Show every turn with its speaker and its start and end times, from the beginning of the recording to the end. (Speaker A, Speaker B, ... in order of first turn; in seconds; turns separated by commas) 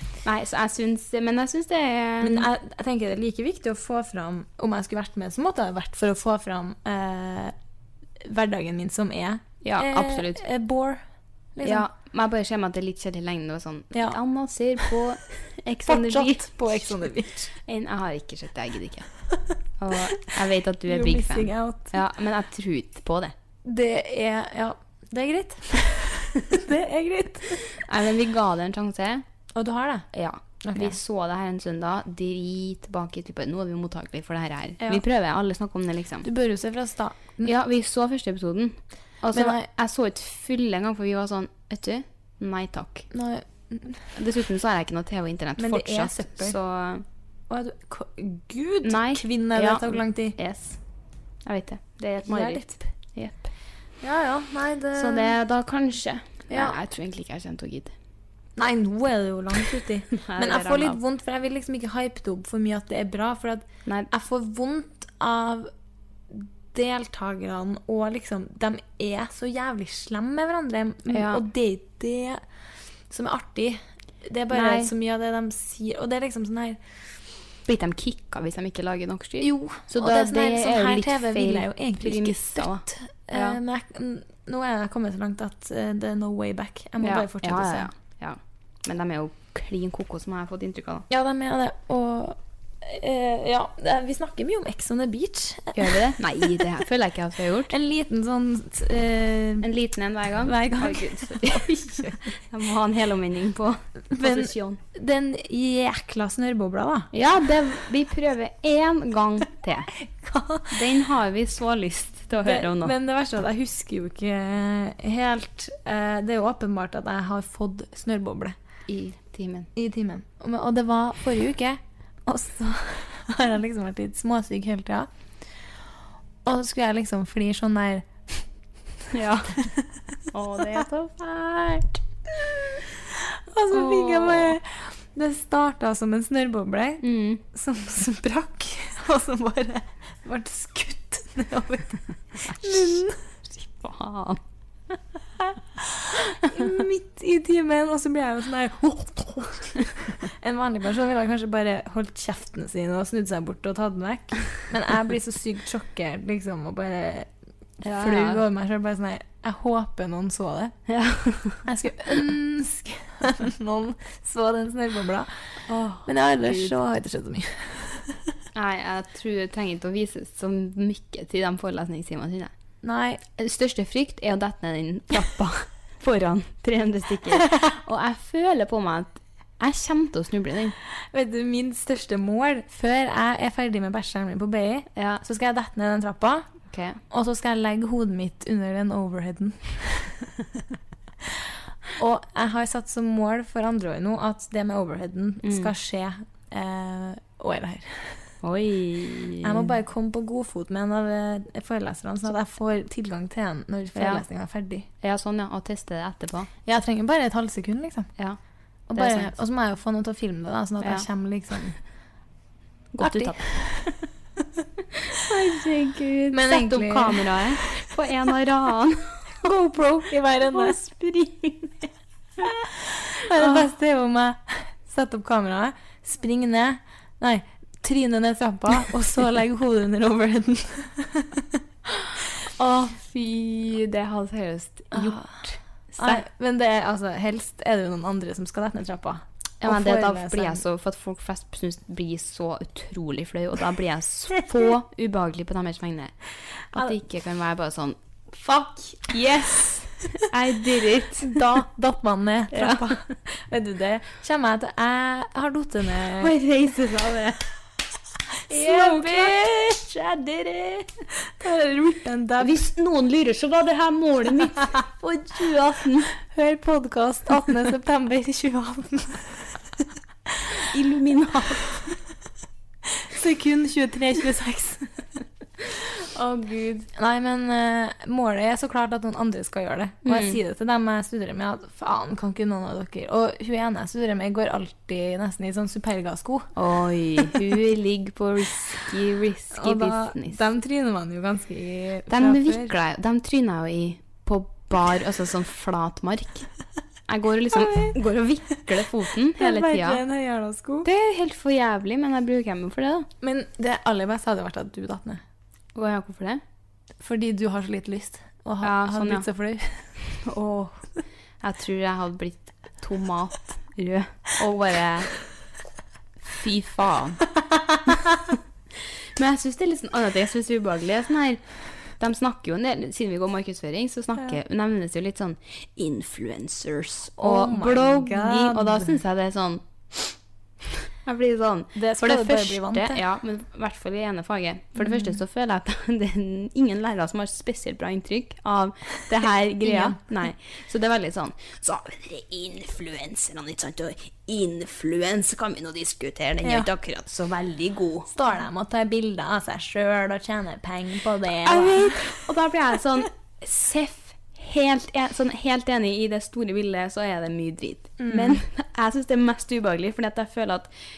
Speaker A: 0.2-2.5, Speaker B: 2.2-7.5, Speaker B: 8.2-11.0, Speaker A: 9.6-10.4, Speaker B: 11.5-11.8, Speaker A: 11.6-16.5, Speaker B: 13.9-14.2, Speaker B: 15.8-17.5, Speaker A: 17.6-19.1, Speaker A: 19.8-23.3, Speaker B: 20.9-22.0, Speaker B: 23.6-27.6, Speaker A: 27.6-29.2, Speaker B: 29.5-30.1, Speaker A: 30.1-36.2, Speaker B: 30.6-31.0, Speaker B: 36.2-37.5, Speaker A: 37.4-43.1, Speaker B: 39.3-39.6, Speaker B: 43.1-44.0, Speaker A: 44.1-47.0, Speaker B: 45.6-46.6, Speaker B: 47.5-50.4, Speaker A: 48.8-50.8, Speaker A: 51.5-53.4, Speaker B: 52.2-52.9, Speaker B: 54.0-55.4, Speaker A: 54.9-57.9, Speaker B: 56.5-56.8, Speaker B: 58.5-65.7, Speaker A: 60.1-61.0, Speaker B: 66.3-72.4, Speaker A: 71.1-71.4, Speaker B: 73.1-76.8, Speaker A: 74.5-74.9, Speaker A: 77.7-83.6, Speaker B: 79.4-87.9, Speaker A: 87.0-91.1, Speaker B: 91.1-96.7, Speaker A: 95.7-97.7, Speaker B: 97.7-99.7, Speaker A: 99.6-104.8, Speaker B: 100.4-102.2, Speaker B: 104.1-107.1, Speaker A: 107.1-109.9, Speaker B: 110.0-110.7, Speaker A: 110.7-112.9, Speaker B: 112.4-118.5, Speaker A: 118.9-119.7, Speaker B: 119.7-125.1, Speaker B: 126.4-128.4, Speaker A: 129.1-129.7, Speaker B: 129.6-131.8, Speaker A: 130.3-131.8, Speaker B: 133.1-143.2, Speaker A: 133.7-134.6, Speaker A: 137.0-137.4, Speaker A: 142.5-142.9, Speaker A: 143.6-144.4, Speaker B: 145.8-157.3, Speaker A: 157.8-158.4, Speaker B: 157.9-160.8, Speaker A: 160.9-161.6, Speaker B: 161.6-165.3, Speaker A: 165.7-166.8, Speaker B: 166.1-168.3, Speaker A: 168.5-172.5, Speaker B: 172.8-173.2, Speaker A: 173.4-180.7, Speaker B: 181.1-186.4, Speaker A: 184.9-185.2, Speaker A: 186.7-187.0, Speaker B: 187.1-190.3, Speaker B: 191.2-198.3, Speaker A: 195.4-195.7, Speaker A: 198.4-199.7, Speaker B: 199.4-204.8, Speaker A: 203.9-204.2, Speaker A: 205.0-206.5, Speaker B: 206.7-208.1, Speaker B: 208.9-211.8, Speaker A: 208.9-209.3, Speaker A: 210.8-211.1, Speaker A: 212.9-213.4, Speaker B: 213.0-214.1, Speaker A: 215.1-221.7, Speaker B: 216.3-217.9, Speaker B: 219.4-220.8, Speaker B: 222.4-231.6, Speaker A: 223.4-223.6, Speaker B: 232.4-232.9, Speaker A: 232.9-236.2, Speaker B: 234.9-235.3, Speaker B: 236.0-240.6, Speaker A: 239.6-246.2, Speaker A: 246.7-248.0, Speaker B: 248.4-249.0, Speaker A: 248.9-251.4, Speaker B: 251.2-256.3, Speaker A: 252.5-253.0, Speaker A: 256.2-257.4, Speaker B: 258.5-259.4, Speaker A: 258.5-260.9, Speaker B: 261.2-262.6, Speaker A: 262.4-266.1, Speaker B: 266.2-269.6, Speaker A: 270.6-271.8, Speaker B: 273.0-274.9, Speaker A: 275.6-276.9, Speaker B: 276.9-286.5, Speaker A: 280.0-280.4, Speaker A: 286.6-290.4, Speaker B: 289.5-292.7, Speaker A: 292.1-296.5, Speaker A: 297.1-300.0, Speaker B: 297.5-297.9, Speaker B: 299.4-300.9, Speaker A: 300.8-303.1, Speaker B: 303.2-305.2, Speaker A: 305.7-306.4, Speaker B: 307.0-309.8, Speaker A: 308.6-309.2, Speaker A: 310.2-310.8, Speaker A: 311.4-315.1, Speaker A: 316.2-317.2, Speaker A: 319.1-321.4, Speaker A: 322.0-329.6, Speaker B: 327.2-329.0, Speaker A: 331.0-348.1, Speaker B: 331.7-333.0, Speaker B: 334.8-335.1, Speaker B: 339.6-340.0, Speaker B: 346.4-346.7, Speaker B: 348.1-352.3, Speaker A: 351.4-360.7, Speaker B: 358.0-358.4